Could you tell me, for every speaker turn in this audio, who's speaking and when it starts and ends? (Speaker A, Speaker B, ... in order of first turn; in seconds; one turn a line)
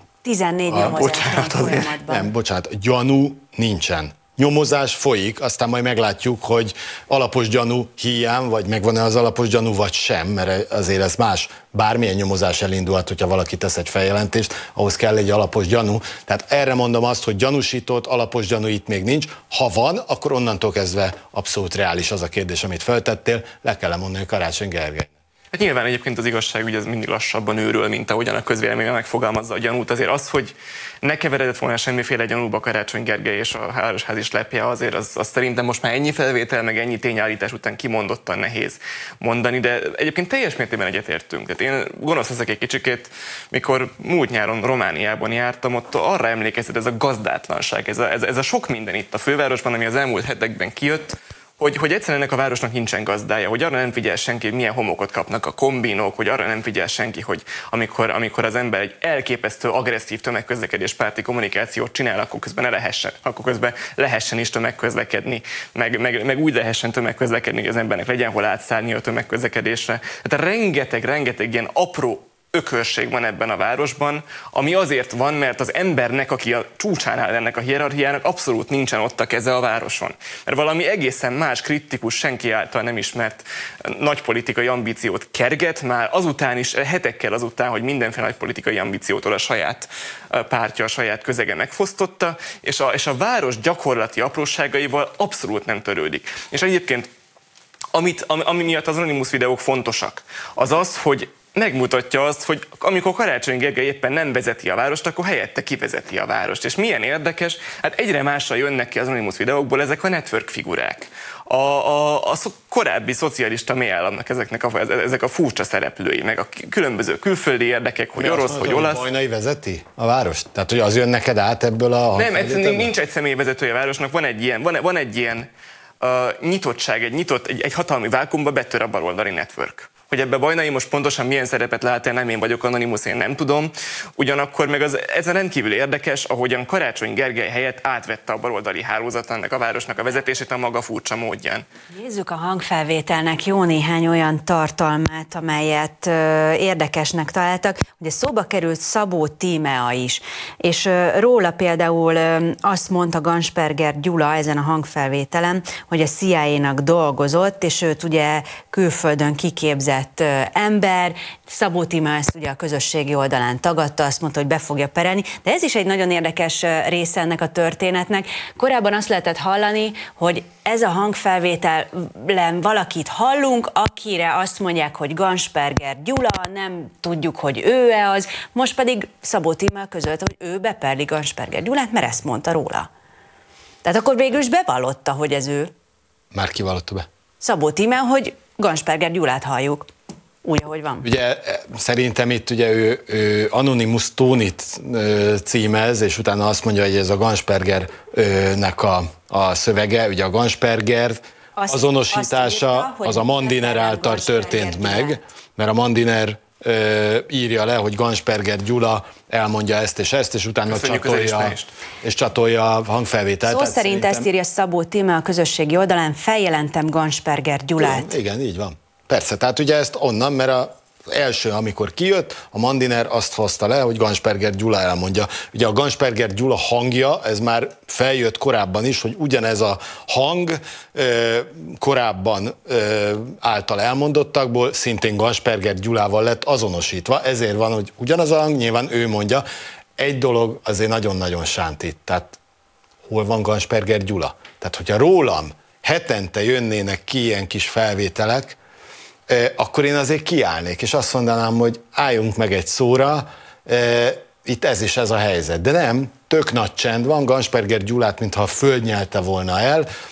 Speaker A: 0.2-2.3
Speaker B: 0.8-1.9
Speaker C: 2.1-25.1
Speaker B: 25.5-97.1
Speaker B: 97.9-119.0
Speaker C: 118.2-122.9
Speaker B: 122.1-125.5
Speaker B: 126.0-141.7
Speaker A: 141.9-182.9
Speaker A: 183.8-185.7
Speaker C: 186.3-187.1
Speaker A: 187.4-189.9
Speaker A: 190.4-191.1
Speaker C: 191.0-214.3
Speaker A: 201.6-205.2
Speaker B: 210.7-211.7
Speaker A: 213.4-218.1
Speaker C: 217.8-239.4
Speaker C: 240.0-242.3
Speaker C: 243.1-248.6
Speaker C: 249.3-259.9